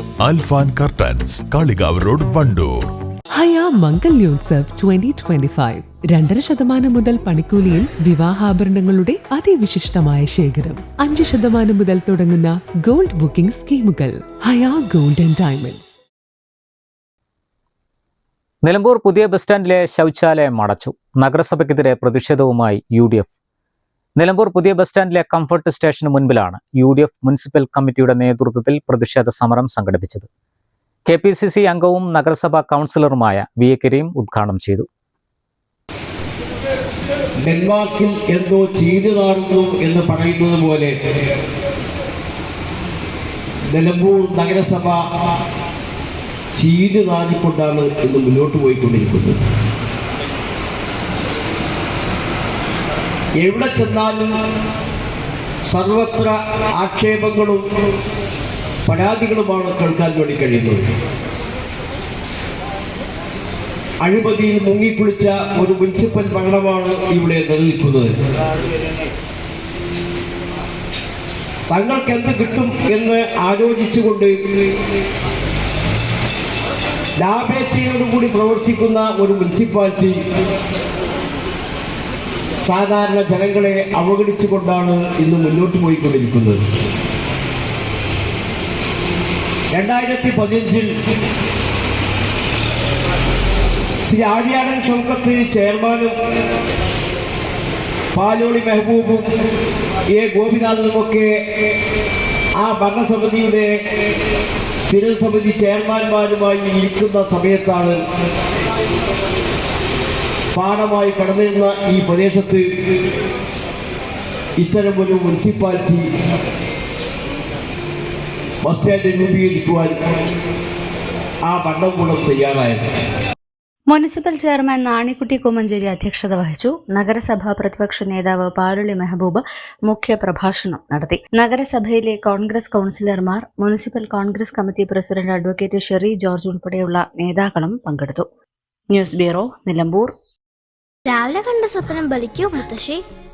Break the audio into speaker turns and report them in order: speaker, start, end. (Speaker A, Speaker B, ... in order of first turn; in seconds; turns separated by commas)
Speaker A: 0.2-2.9, Speaker B: 3.3-15.9, Speaker C: 18.6-23.3, Speaker C: 24.2-30.3, Speaker C: 31.1-34.9, Speaker D: 37.5-40.9, Speaker D: 43.7-45.0, Speaker D: 46.6-49.4, Speaker D: 53.4-54.3, Speaker D: 55.7-57.6, Speaker D: 58.9-60.8, Speaker D: 64.0-68.1, Speaker D: 71.7-74.3, Speaker D: 77.2-80.1, Speaker D: 82.6-86.6, Speaker D: 89.7-90.9, Speaker D: 94.1-96.1, Speaker D: 98.1-99.3, Speaker D: 100.1-101.3, Speaker D: 102.6-103.7, Speaker D: 104.8-108.0, Speaker D: 110.5-112.6, Speaker D: 114.6-116.0, Speaker D: 118.6-120.0, Speaker D: 121.5-122.8, Speaker E: 123.9-138.2, Speaker E: 138.9-140.1, Speaker F: 141.1-143.0